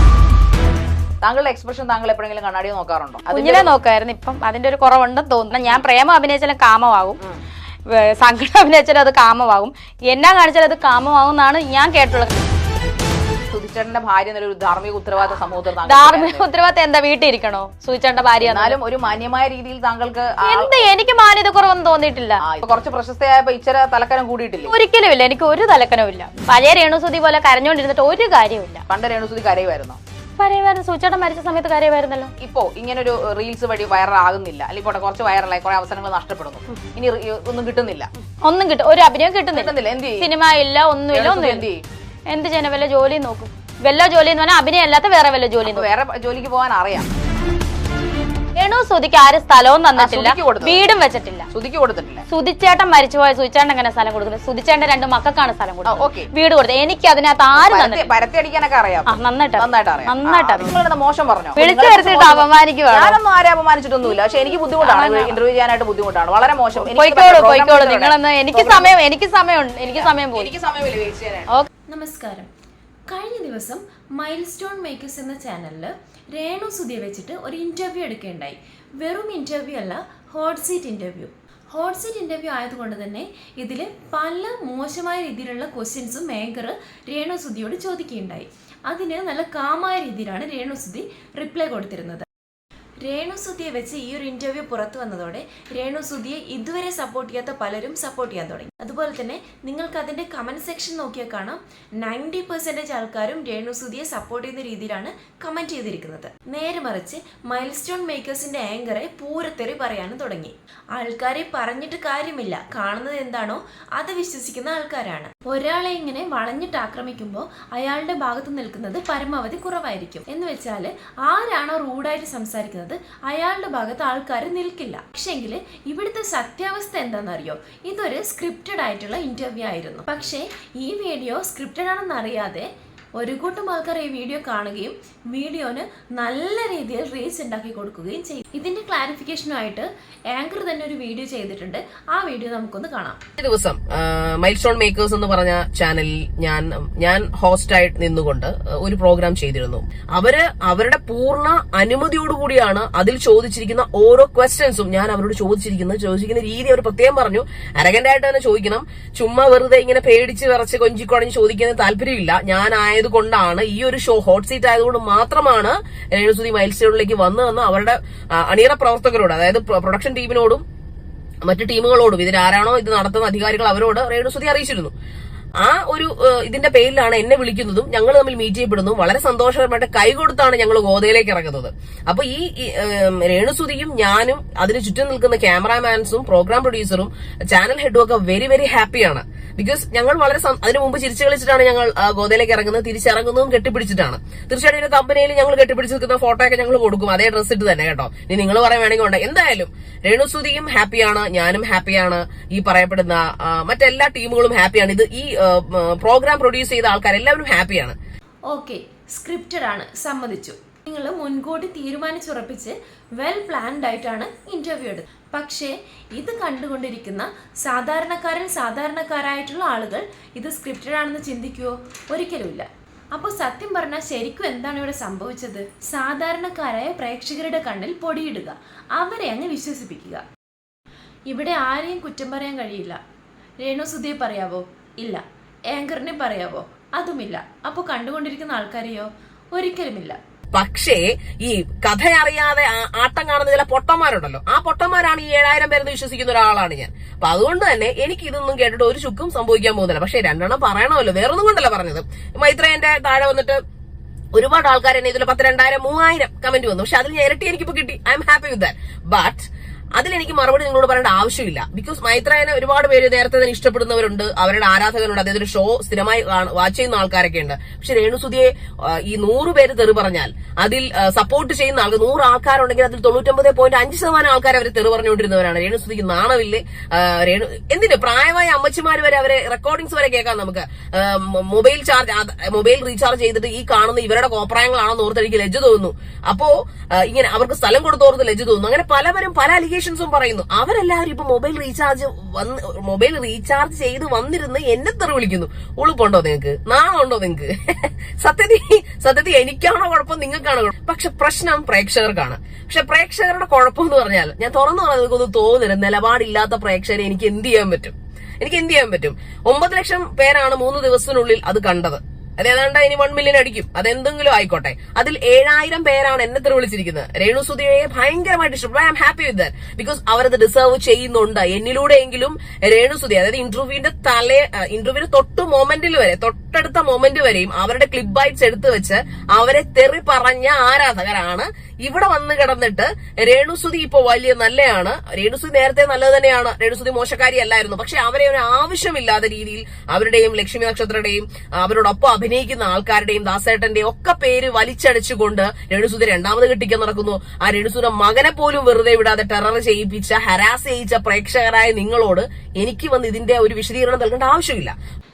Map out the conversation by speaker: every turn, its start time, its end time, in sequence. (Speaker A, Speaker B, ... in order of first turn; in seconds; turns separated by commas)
Speaker A: 1.2-3.7, Speaker B: 3.3-7.2, Speaker B: 7.9-12.3, Speaker A: 13.5-16.5, Speaker B: 15.8-18.8, Speaker A: 18.4-20.8, Speaker B: 20.4-22.4, Speaker A: 22.4-24.7, Speaker B: 24.7-28.8, Speaker A: 28.9-30.0, Speaker B: 30.4-32.3, Speaker A: 32.4-38.1, Speaker B: 38.4-41.7, Speaker A: 39.5-40.3, Speaker A: 41.1-41.8, Speaker B: 42.3-45.9, Speaker A: 45.7-47.1, Speaker B: 48.6-51.5, Speaker A: 50.0-50.9, Speaker A: 51.5-52.2, Speaker B: 52.3-58.1, Speaker A: 55.9-56.3, Speaker A: 57.5-69.0, Speaker B: 59.1-60.8, Speaker B: 61.5-63.2, Speaker B: 64.8-65.4, Speaker B: 66.8-70.5, Speaker A: 69.8-71.5, Speaker C: 71.9-72.5, Speaker C: 73.1-92.3, Speaker C: 93.0-143.2, Speaker D: 143.4-170.6, Speaker D: 171.4-174.9, Speaker D: 175.6-208.0, Speaker C: 208.5-230.2, Speaker C: 231.3-233.0, Speaker C: 233.6-240.2, Speaker D: 240.5-253.6, Speaker D: 254.3-354.8